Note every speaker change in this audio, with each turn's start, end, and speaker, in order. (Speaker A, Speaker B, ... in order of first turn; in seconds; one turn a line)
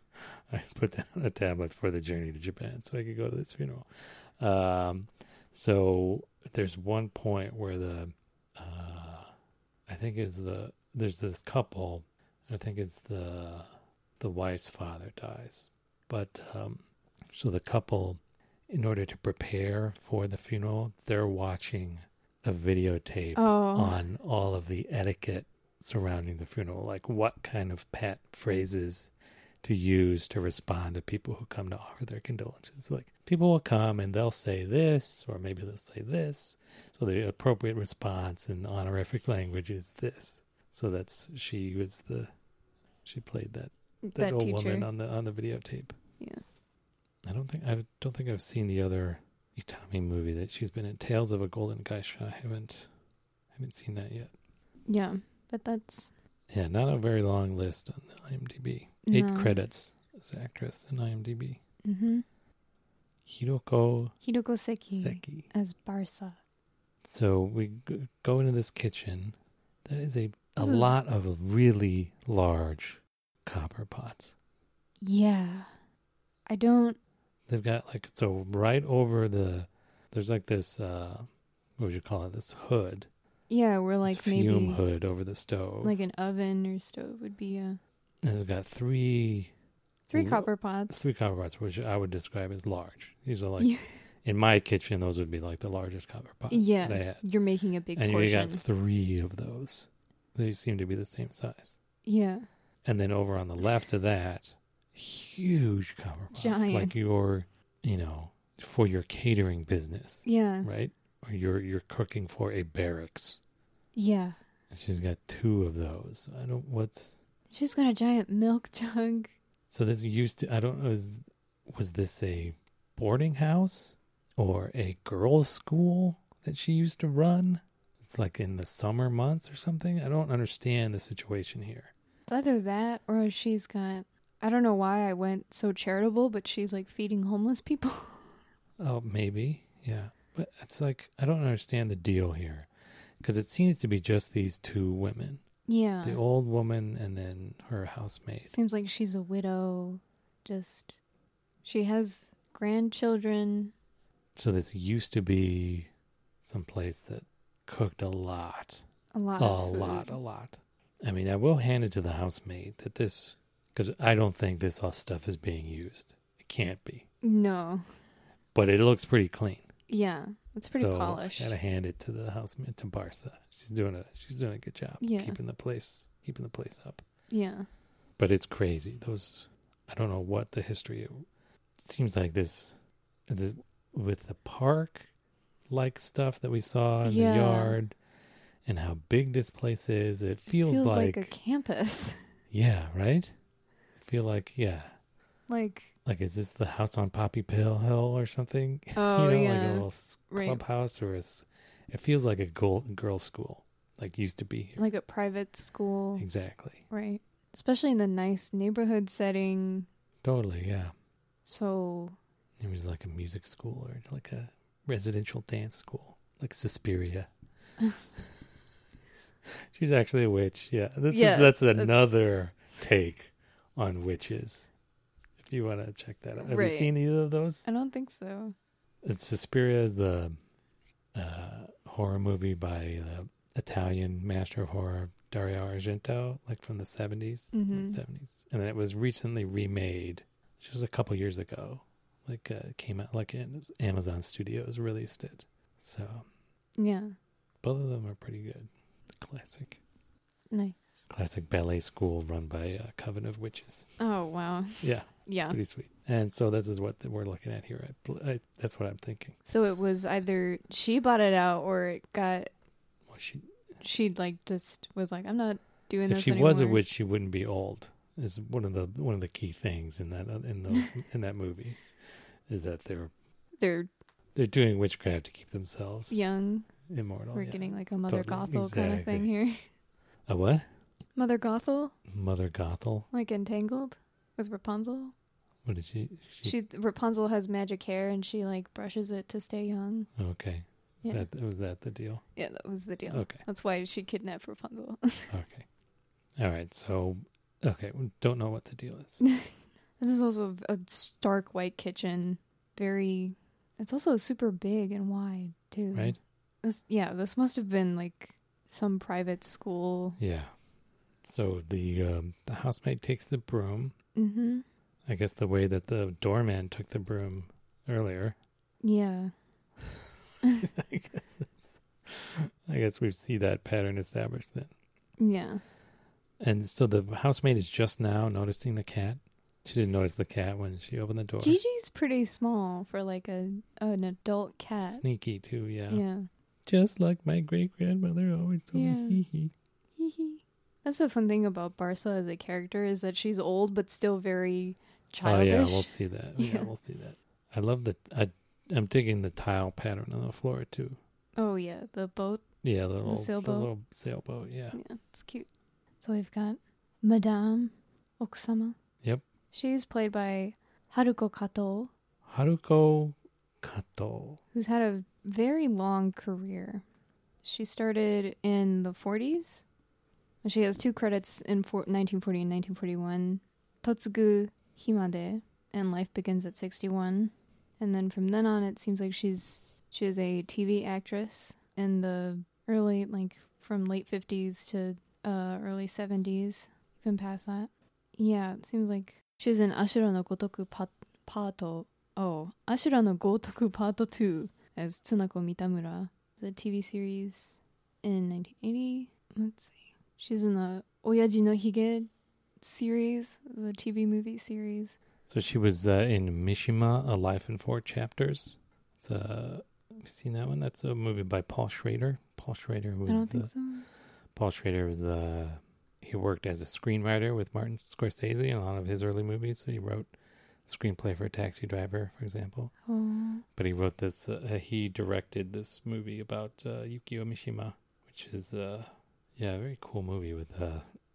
Speaker A: 0.1-9.3
Speaker A: 9.9-29.1
Speaker B: 23.4-24.0
Speaker A: 29.6-42.3
Speaker A: 43.1-45.9
Speaker B: 44.0-44.9
Speaker A: 47.2-52.9
Speaker A: 53.5-54.3
Speaker B: 54.9-56.1
Speaker A: 56.5-61.6
Speaker B: 59.0-59.6
Speaker B: 61.8-62.2
Speaker A: 63.3-64.1
Speaker B: 64.2-66.4
Speaker A: 64.9-65.5
Speaker A: 67.0-74.3
Speaker B: 70.6-70.9
Speaker B: 75.0-75.7
Speaker B: 76.5-77.0
Speaker A: 77.5-83.1
Speaker B: 83.5-84.8
Speaker A: 84.0-86.0
Speaker B: 85.8-87.8
Speaker A: 88.2-89.5
Speaker B: 90.1-91.0
Speaker A: 90.1-93.7
Speaker B: 93.6-93.8
Speaker A: 94.2-97.2
Speaker B: 96.5-98.6
Speaker A: 98.0-101.8
Speaker B: 102.0-102.5
Speaker A: 102.8-113.4
Speaker B: 106.3-107.0
Speaker B: 110.2-110.7
Speaker B: 114.0-114.4
Speaker A: 114.7-117.2
Speaker B: 117.5-119.3
Speaker A: 119.7-131.9
Speaker B: 132.3-138.3
Speaker A: 138.8-142.7
Speaker A: 143.2-145.4
Speaker B: 145.7-146.2
Speaker A: 146.0-148.5
Speaker B: 148.5-151.0
Speaker B: 151.6-153.7
Speaker A: 154.3-155.9
Speaker A: 156.4-158.8
Speaker B: 159.1-160.2
Speaker A: 159.4-167.1
Speaker B: 167.2-167.8
Speaker A: 168.5-169.7
Speaker B: 169.9-171.5
Speaker A: 170.7-177.0
Speaker B: 175.0-175.4
Speaker B: 177.3-177.7
Speaker A: 178.2-181.3
Speaker A: 181.8-182.8
Speaker A: 183.3-185.1
Speaker A: 185.7-188.0
Speaker B: 187.0-187.8
Speaker A: 188.7-191.3
Speaker B: 190.5-192.2
Speaker A: 192.5-193.3
Speaker A: 194.0-194.9
Speaker B: 195.5-195.9
Speaker A: 196.0-204.8
Speaker B: 199.0-200.6
Speaker B: 204.8-206.2
Speaker A: 206.2-206.8
Speaker B: 206.9-209.9
Speaker A: 210.2-210.9
Speaker B: 211.5-212.2
Speaker A: 212.6-217.3
Speaker A: 219.7-224.7
Speaker B: 221.1-222.1
Speaker A: 225.4-227.7
Speaker B: 226.4-226.9
Speaker B: 227.7-228.6
Speaker A: 229.0-230.4
Speaker A: 231.2-246.3
Speaker B: 237.5-238.0
Speaker B: 246.8-247.2
Speaker A: 247.6-249.8
Speaker B: 250.5-251.1
Speaker A: 251.1-253.9
Speaker B: 254.0-255.6
Speaker A: 254.8-259.4
Speaker B: 259.5-262.5
Speaker A: 263.1-263.5
Speaker B: 263.8-266.8
Speaker A: 266.1-271.8
Speaker A: 272.5-273.1
Speaker B: 273.6-273.9
Speaker A: 274.4-276.2
Speaker B: 276.1-276.7
Speaker A: 276.9-279.3
Speaker B: 277.3-279.6
Speaker A: 280.3-280.6
Speaker B: 281.1-282.0
Speaker A: 282.1-283.1
Speaker B: 283.1-285.1
Speaker A: 285.6-286.5
Speaker B: 286.4-290.1
Speaker A: 290.2-292.2
Speaker B: 292.4-295.3
Speaker A: 293.1-293.4
Speaker A: 295.3-295.7
Speaker A: 296.4-299.2
Speaker B: 299.2-310.2
Speaker A: 305.9-306.2
Speaker A: 310.2-310.5
Speaker A: 311.2-313.9
Speaker B: 314.2-314.6
Speaker A: 315.1-318.4
Speaker B: 318.8-319.3
Speaker A: 320.6-324.7
Speaker B: 325.2-325.6
Speaker A: 326.4-331.6
Speaker B: 331.4-335.0
Speaker A: 334.8-336.0
Speaker B: 335.9-336.3
Speaker A: 336.7-339.5
Speaker B: 338.7-339.2
Speaker B: 340.0-346.7
Speaker A: 345.2-351.0
Speaker B: 351.4-352.4
Speaker A: 352.6-354.8
Speaker B: 353.0-353.7
Speaker B: 354.7-355.5
Speaker B: 356.0-358.8
Speaker B: 359.5-361.9
Speaker A: 362.2-364.4
Speaker B: 364.5-366.8
Speaker B: 367.4-369.6
Speaker B: 370.4-402.1
Speaker B: 402.6-405.0
Speaker A: 405.3-413.5
Speaker B: 413.1-413.9
Speaker A: 414.4-420.1
Speaker A: 420.7-422.7
Speaker B: 422.9-423.4
Speaker A: 423.6-430.9